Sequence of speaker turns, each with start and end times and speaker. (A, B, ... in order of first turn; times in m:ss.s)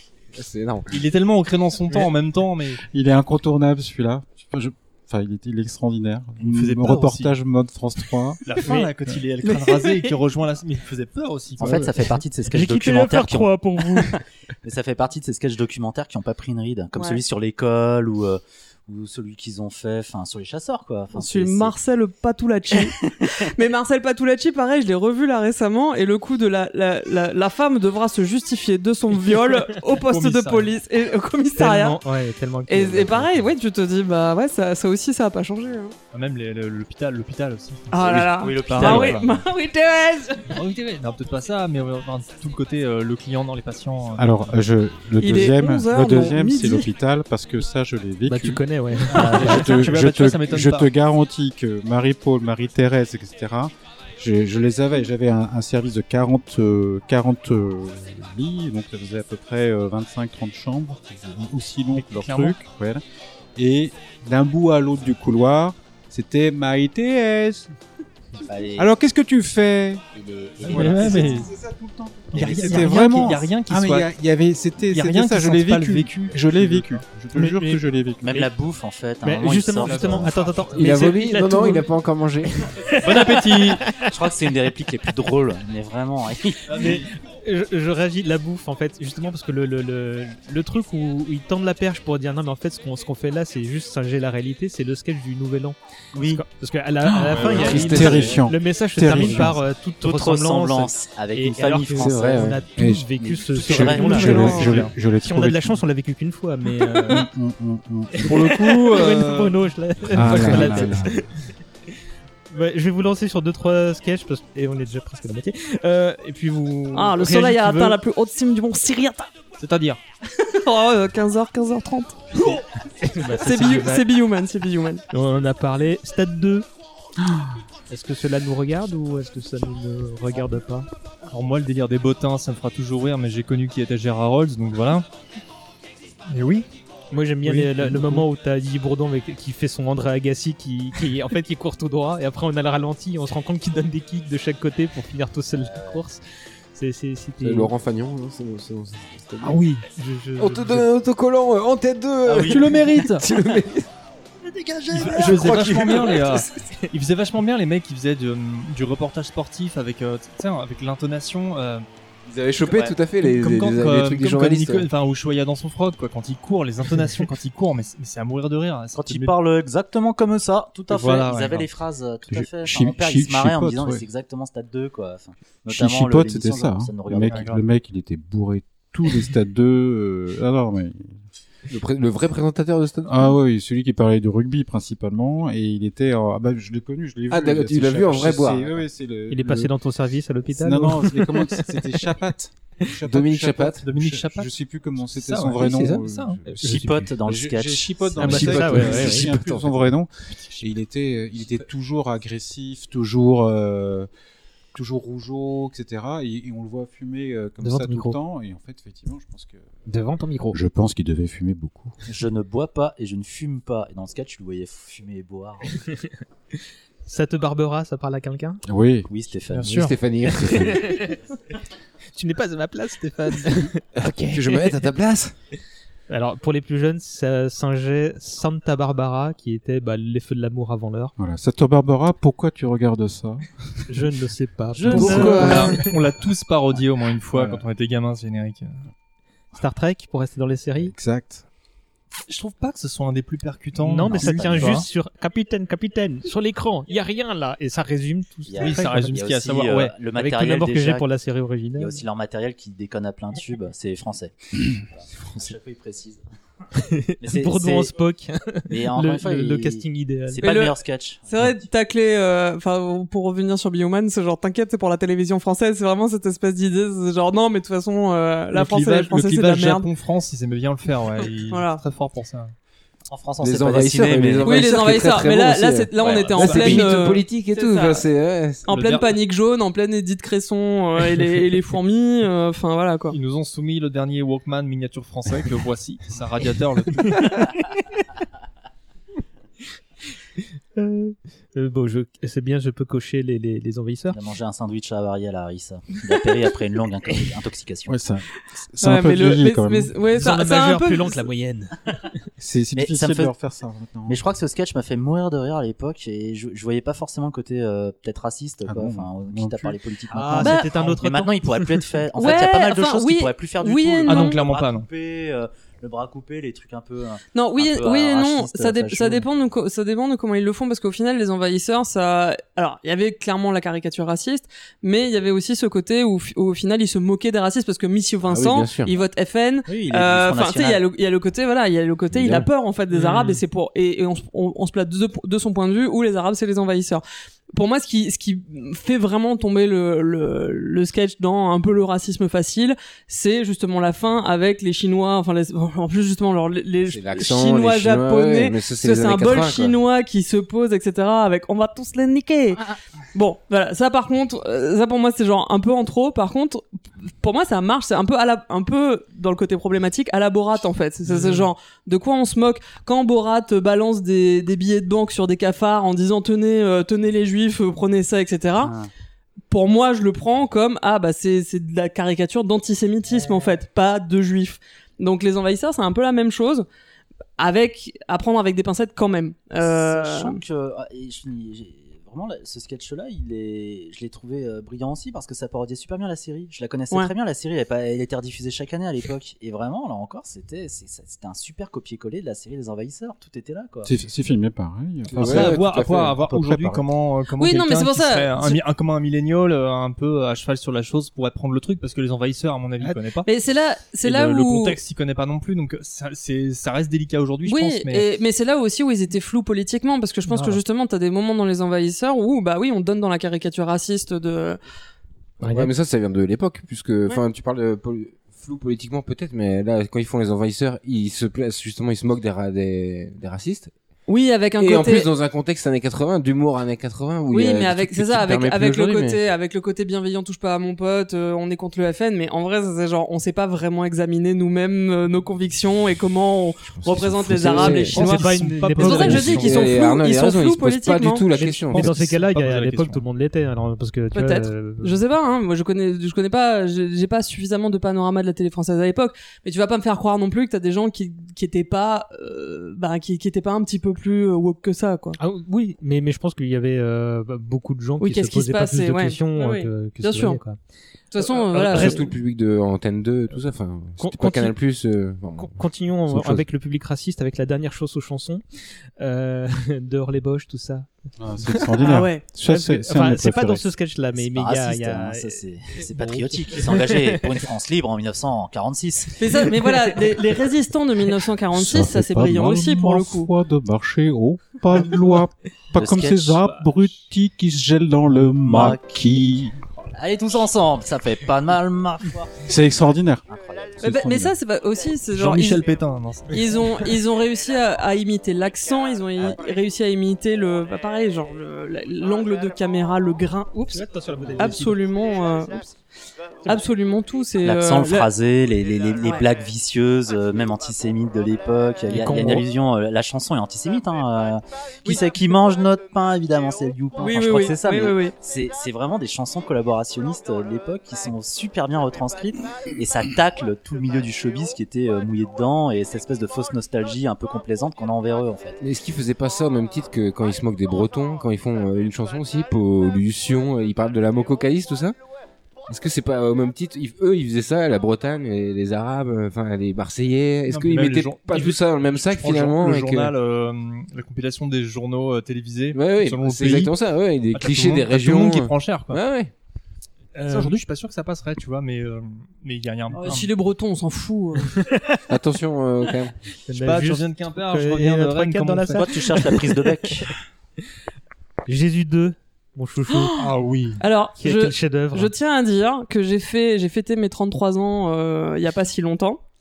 0:00.4-0:00.9 A
0:00.9-0:02.8 B
0:02.9-0:08.4 C
0:06.4-0:07.4 B
0:08.4-0:11.9 B
0:08.7-0:08.9 D
0:09.4-0:10.1 D
0:11.6-0:21.7 E
0:11.6-0:11.9 F
0:12.5-0:14.2 F
0:21.1-0:32.0 D
0:22.7-0:23.3 E
0:29.9-0:30.7 B
0:31.6-0:33.5 F
0:32.7-0:36.0 D
0:36.1-0:39.2 B
0:37.9-0:40.6 D
0:38.0-0:39.5 E
0:40.5-0:44.6 B
0:44.2-1:03.0 C
0:45.2-0:46.9 D
0:48.3-0:49.7 F
0:49.1-0:50.9 B
1:02.0-1:02.6 B
1:03.6-1:07.7 C
1:08.4-1:08.9 E
1:08.8-1:10.0 C
1:10.2-1:11.5 E
1:10.6-1:18.5 C
1:10.7-1:11.5 B
1:12.3-1:14.1 B
1:12.3-1:13.2 E
1:14.9-1:17.0 B
1:17.4-1:17.8 F
1:18.2-1:20.3 E
1:19.2-1:21.9 F
1:19.8-1:20.6 B
1:20.7-1:22.6 A
1:22.7-1:24.0 F
1:23.0-1:23.8 B
1:24.0-1:27.0 E
1:26.7-1:27.1 B
1:26.8-1:35.8 F
1:36.1-1:36.4 E
1:36.3-1:47.3 F
1:37.0-1:39.6 C
1:37.4-1:38.3 B
1:37.4-1:38.4 A
1:40.0-1:42.6 E
1:42.0-1:42.6 A
1:42.8-1:45.8 C
1:43.2-1:44.4 E
1:43.7-1:44.8 D
1:44.4-1:44.9 B
1:47.1-1:48.6 C
1:48.2-1:51.3 F
1:48.2-1:49.6 B
1:50.1-1:51.2 C
1:52.5-1:58.0 F
1:56.9-1:59.3 D
1:59.6-2:00.0 B
2:00.4-2:02.6 D
2:03.0-2:04.1 F
2:03.4-2:05.0 D
2:05.1-2:06.7 F
2:07.9-2:10.9 F
2:11.3-2:15.1 B
2:16.3-2:16.7 B
2:17.1-2:26.2 F
2:17.4-2:18.2 B
2:25.6-2:26.0 E
2:26.7-2:27.7 F
2:27.4-2:29.6 A
2:29.4-2:30.9 F
2:30.4-2:33.9 A
2:32.3-2:32.6 E
2:32.3-2:33.2 B
2:34.4-2:36.4 E
2:35.0-2:41.8 B
2:35.0-2:36.2 A
2:42.3-2:44.9 A
2:42.6-2:43.0 E
2:43.2-2:49.3 B
2:49.0-2:57.6 E
2:50.9-2:51.7 B
2:52.3-2:54.0 C
2:55.7-3:01.2 C
2:57.3-2:57.6 B
3:01.7-3:03.4 A
3:03.1-3:09.7 C
3:07.3-3:08.8 A
3:09.3-3:11.7 F
3:10.5-3:24.1 C
3:13.1-3:13.9 A
3:13.8-3:14.5 B
3:15.1-3:16.4 B
3:15.6-3:16.1 A
3:16.5-3:17.0 F
3:16.6-3:19.1 E
3:18.2-3:19.3 F
3:18.3-3:19.9 A
3:24.7-3:29.7 C
3:27.6-3:28.2 F
3:29.9-3:30.6 F
3:30.5-3:32.0 C
3:32.1-3:35.8 E
3:37.0-3:38.6 F
3:38.6-3:39.1 C
3:39.1-3:39.9 E
3:39.5-3:39.9 B
3:39.7-3:40.9 A
3:40.4-3:41.2 F
3:42.1-3:44.7 F
3:44.0-3:45.3 A
3:46.1-3:51.1 F
3:51.2-3:54.0 C
3:53.9-3:55.8 F
3:54.8-3:58.8 B
3:54.9-3:55.8 A
3:55.1-3:55.5 C
3:57.3-3:57.6 C
3:59.6-4:00.9 F
4:00.8-4:01.4 C
4:02.3-4:04.9 B
4:03.8-4:09.2 F
4:04.5-4:04.7 C
4:08.5-4:11.1 E
4:08.6-4:09.9 B
4:10.2-4:12.0 F
4:11.8-4:16.2 E
4:16.8-4:20.5 F
4:17.2-4:17.9 E
4:18.7-4:21.5 E
4:20.4-4:29.9 D
4:28.5-4:32.5 B
4:31.5-4:31.8 D
4:33.1-4:34.8 E
4:33.4-4:38.7 A
4:34.4-4:38.1 D
4:36.0-4:37.0 B
4:38.7-4:43.2 D
4:38.7-4:39.1 B
4:43.1-4:47.4 B
4:47.2-4:47.5 F
4:50.8-4:54.2 F
4:54.1-4:58.0 E
4:57.9-4:59.9 C
4:58.8-5:01.2 D
5:00.2-5:02.0 F
5:02.4-5:04.2 C
5:02.8-5:03.3 E
5:04.1-5:19.3 E
5:08.6-5:09.8 C
5:10.1-5:12.0 F
5:10.4-5:10.7 D
5:12.2-5:14.4 D
5:14.1-5:14.9 B
5:17.3-5:37.0 D
5:28.3-5:28.9 A
5:29.7-5:30.8 E
5:32.1-5:32.5 A
5:32.9-5:33.4 B
5:37.5-5:56.6 D
5:46.8-5:49.8 A
5:57.2-6:08.7 D
6:01.1-6:01.4 B
6:09.5-6:16.7 D
6:17.4-6:20.4 D
6:19.6-6:33.9 E
6:33.8-6:36.8 C
6:35.1-6:36.2 A
6:35.1-6:43.3 B
6:37.4-6:38.6 D
6:43.2-6:44.8 D
6:44.0-6:48.1 B
6:47.5-6:54.6 D
6:50.3-6:50.6 F
6:55.4-6:55.7 F
6:55.4-7:03.7 A
7:04.1-7:05.1 D
7:04.6-7:09.2 A
7:07.3-7:21.3 D
7:16.7-7:18.2 A
7:17.5-7:19.7 F
7:17.6-7:19.6 B
7:18.9-7:22.0 A
7:21.3-7:25.0 F
7:21.7-7:23.0 B
7:24.1-7:35.2 D
7:35.2-7:40.6 F
7:38.0-7:40.4 D
7:41.1-7:42.2 D
7:41.3-7:46.4 A
7:41.7-7:42.0 F
7:44.0-7:44.6 F
7:45.4-7:48.4 F
7:49.0-7:50.9 F
7:51.2-7:53.7 C
7:51.8-7:52.2 D
7:52.4-7:57.2 F
7:54.2-7:59.5 E
7:59.2-8:03.3 D
8:01.5-8:09.6 C
8:05.8-8:06.5 E
8:06.6-8:06.9 B
8:08.4-8:09.1 E
8:09.9-8:12.4 E
8:12.4-8:13.3 C
8:13.3-8:14.0 E
8:13.8-8:14.4 C
8:13.8-8:15.6 D
8:15.1-8:16.7 B
8:16.3-8:23.8 D
8:23.7-8:24.8 F
8:24.4-8:25.7 D
8:26.4-8:28.1 D
8:27.4-8:48.6 E
8:31.9-8:32.5 F
8:37.0-8:38.2 D
8:48.6-8:55.0 A
8:55.7-9:03.1 A
9:00.5-9:06.8 B
9:05.7-9:09.3 A
9:07.3-9:09.0 B
9:10.2-9:10.6 F
9:10.3-9:13.3 B
9:12.9-9:14.6 D
9:14.6-9:15.0 F
9:15.1-9:16.1 A
9:16.5-9:19.4 F
9:16.5-9:19.1 B
9:18.7-9:20.1 E
9:21.5-9:23.2 F
9:22.9-9:29.2 D
9:23.2-9:23.8 B
9:24.2-9:25.1 F